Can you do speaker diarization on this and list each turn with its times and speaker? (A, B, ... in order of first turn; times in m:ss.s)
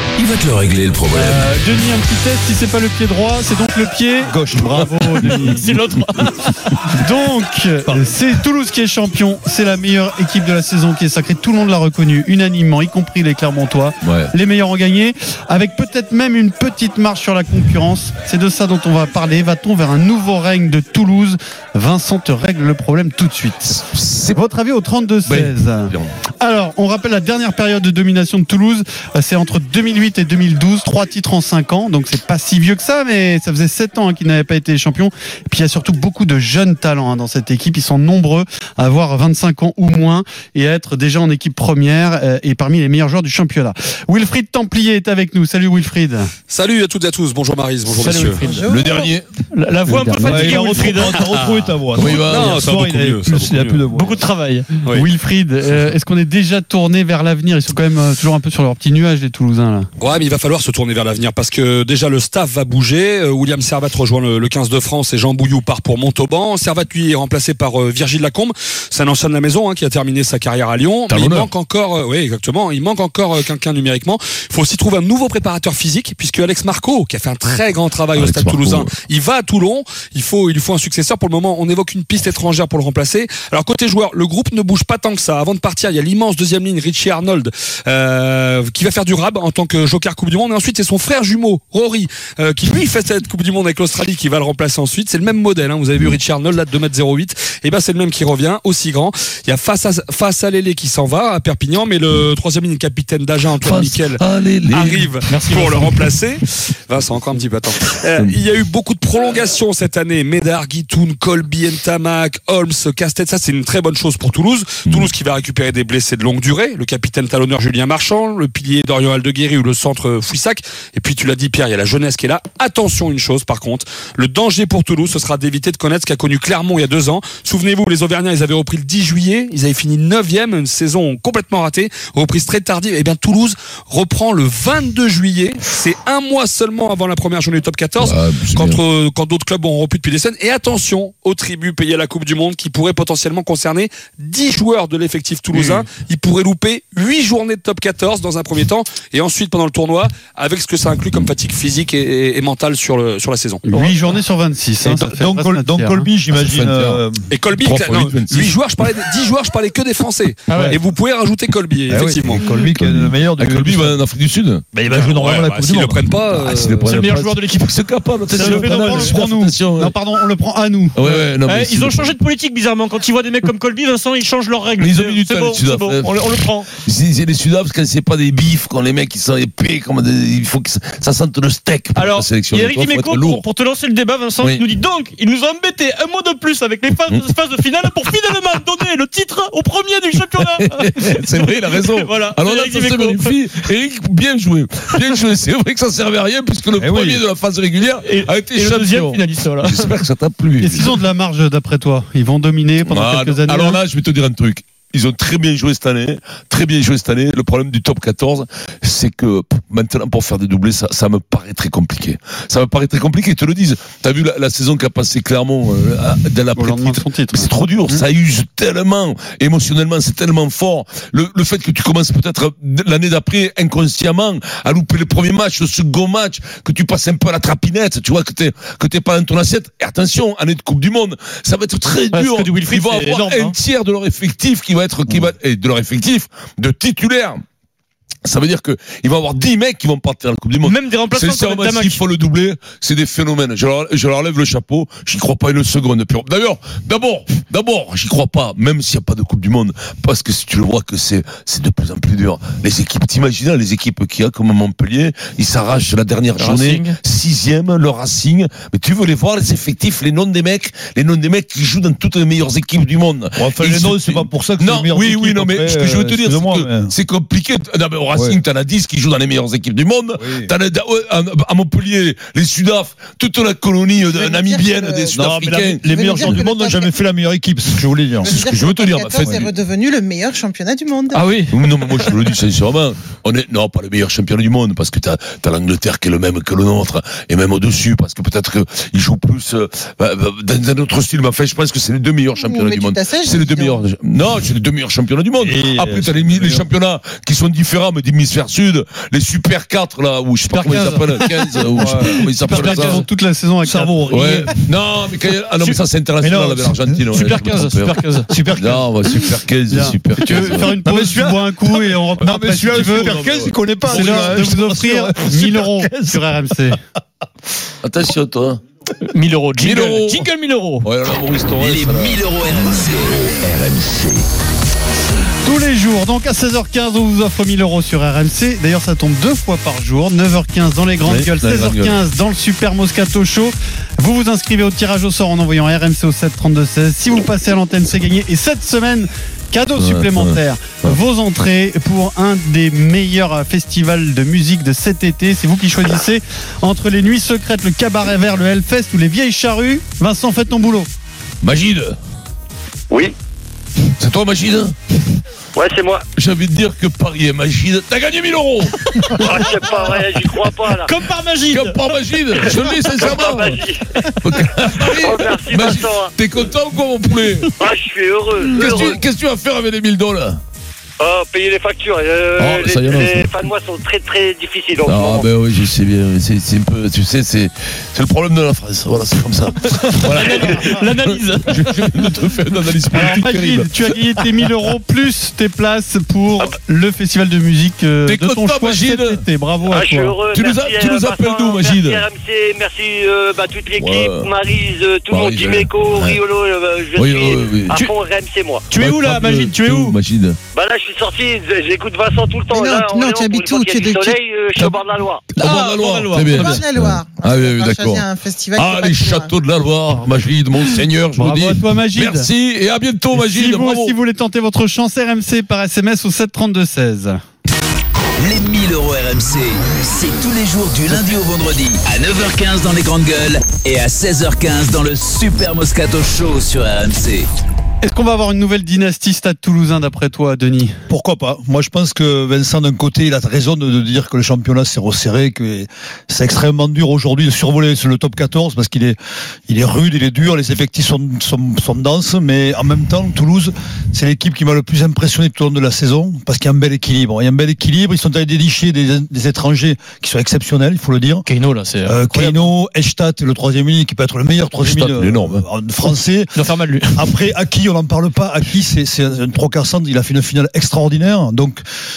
0:00.2-0:01.5 A
0:01.1-0:05.7 B
0:04.2-0:05.0 C
0:05.2-0:06.7 D
0:06.9-0:46.3 B
0:14.0-0:14.3 E
0:23.9-0:24.4 E
0:25.2-0:26.1 E
0:46.5-0:48.4 F
0:47.9-0:48.8 D
0:48.4-0:49.2 G
0:48.7-0:49.3 E
0:49.5-0:51.2 D
0:49.8-0:50.8 B
0:50.2-0:54.3 C
0:52.0-0:52.8 E
0:52.1-0:53.8 F
0:53.9-0:54.8 D
0:54.9-0:59.9 B
1:00.0-2:33.9 F
1:11.1-1:11.5 E
1:18.2-1:18.9 E
1:43.6-1:45.3 E
1:45.3-1:45.9 D
1:54.9-1:55.1 E
2:18.0-2:18.8 E
2:33.7-2:36.1 B
2:34.8-2:35.1 E
2:35.1-2:37.2 C
2:36.4-2:37.0 E
2:37.3-2:42.6 F
2:37.6-2:38.6 E
2:40.5-2:40.8 D
2:41.9-2:44.0 C
2:42.8-2:44.7 E
2:44.7-2:46.0 C
2:44.9-2:47.1 F
2:46.3-2:50.0 E
2:46.9-2:47.8 D
2:48.3-2:51.1 B
2:48.4-2:49.1 C
2:48.5-2:48.9 D
2:51.0-2:52.2 E
2:51.0-2:56.7 D
2:54.8-3:03.5 E
3:02.0-3:11.2 D
3:04.4-3:04.7 E
3:10.3-3:20.9 E
3:11.7-3:13.5 D
3:16.8-3:17.2 C
3:18.0-3:19.9 D
3:20.6-3:23.8 B
3:22.8-3:57.4 E
3:36.6-3:38.0 B
3:52.1-3:53.6 D
3:58.2-4:36.4 E
4:00.6-4:02.0 D
4:16.4-4:17.0 D
4:23.4-4:26.9 C
4:28.1-4:28.4 C
4:30.2-4:30.5 C
4:34.0-4:35.2 G
4:35.1-4:38.4 C
4:35.8-4:36.9 G
4:38.2-4:41.4 G
4:38.2-4:39.5 E
4:41.1-4:41.6 D
4:41.5-5:03.0 E
4:52.3-4:53.8 G
4:55.4-4:56.7 C
5:00.5-5:01.2 B
5:01.7-5:02.9 C
5:02.0-5:04.2 B
5:03.6-5:04.5 C
5:04.1-5:10.8 E
5:05.6-5:07.2 C
5:07.1-5:08.3 D
5:08.3-5:08.9 C
5:09.7-5:13.2 B
5:10.4-5:16.3 C
5:12.2-5:14.5 E
5:13.9-5:16.8 B
5:17.8-5:18.6 E
5:19.0-5:20.9 D
5:19.6-5:20.3 E
5:20.8-5:22.6 E
5:21.6-5:24.2 A
5:25.4-5:50.9 B
5:31.0-5:32.0 E
5:39.8-5:41.0 E
5:51.4-5:52.0 E
5:54.0-5:54.8 E
5:55.6-5:56.0 H
5:56.2-6:00.4 E
5:59.2-6:00.9 H
6:00.7-6:01.8 D
6:01.5-6:07.8 E
6:02.9-6:03.8 H
6:05.0-6:06.1 H
6:07.6-6:09.0 H
6:08.5-6:10.4 E
6:11.0-6:15.3 H
6:12.4-6:13.6 E
6:14.8-6:24.3 E
6:19.8-6:22.0 D
6:22.9-6:30.2 B
6:28.1-6:29.2 E
6:29.7-6:38.7 H
6:30.3-6:32.1 E
6:33.7-6:34.3 E
6:35.1-6:36.3 E
6:36.9-6:37.9 E
6:38.7-6:40.0 D
6:38.7-6:40.4 E
6:40.5-6:45.2 H
6:42.5-6:44.2 G
6:44.6-6:44.8 E
6:45.3-6:54.0 E
6:45.4-6:46.6 D
6:46.3-6:49.4 G
6:51.2-6:52.3 B
6:53.1-6:57.2 B
6:58.2-7:07.3 A
7:07.8-7:10.8 B
7:10.9-7:19.0 C
7:19.5-7:31.3 C
7:31.3-7:32.5 D
7:31.8-7:36.4 C
7:34.6-7:35.4 E
7:36.4-7:37.2 D
7:36.9-7:41.6 C